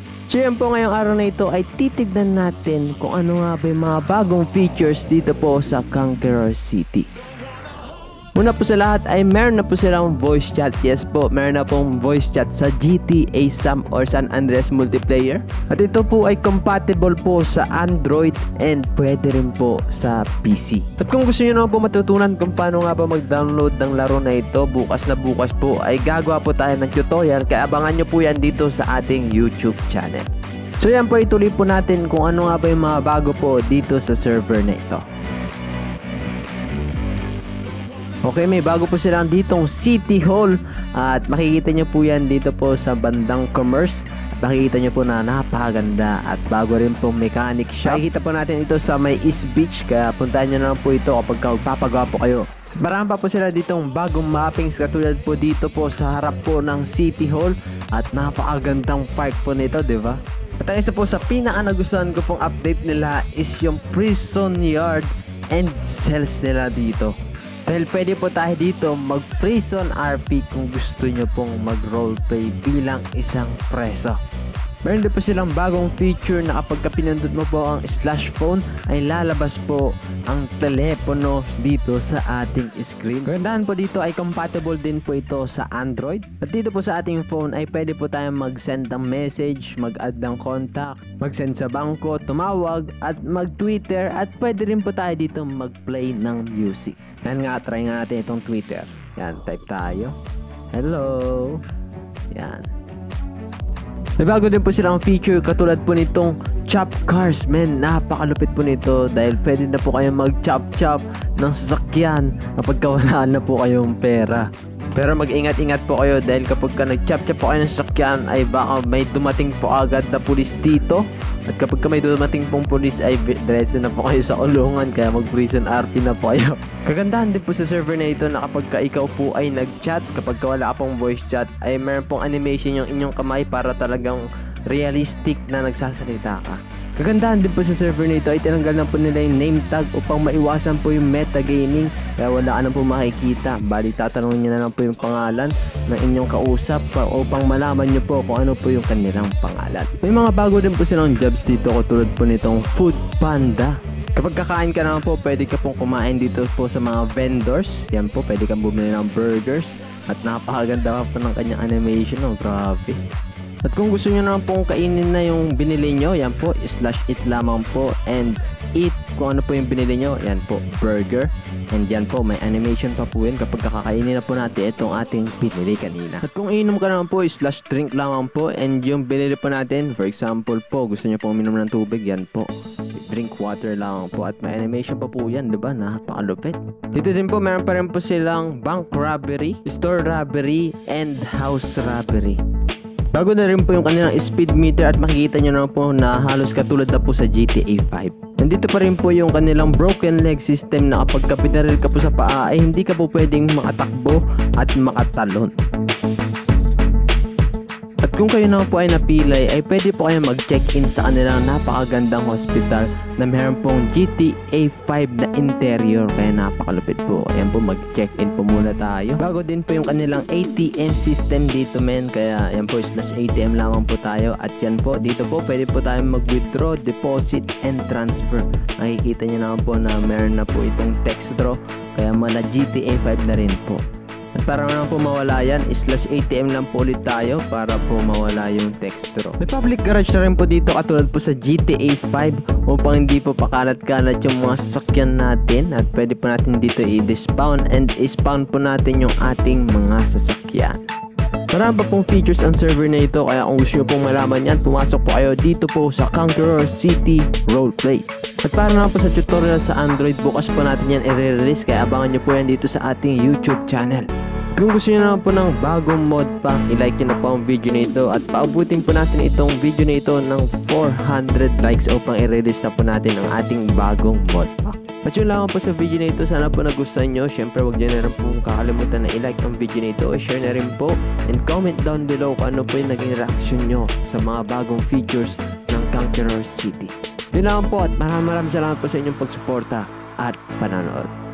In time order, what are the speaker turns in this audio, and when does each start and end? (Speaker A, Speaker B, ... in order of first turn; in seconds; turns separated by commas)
Speaker A: 0.3-7.1, Speaker A: 8.3-30.3, Speaker A: 30.8-35.0, Speaker A: 38.2-67.2, Speaker A: 67.7-74.2, Speaker A: 74.8-100.1, Speaker A: 100.7-101.6, Speaker A: 102.3-102.7, Speaker A: 104.2-163.0, Speaker A: 163.6-192.4, Speaker A: 193.1-205.5, Speaker A: 208.0-233.8, Speaker A: 234.3-250.9, Speaker A: 251.5-291.1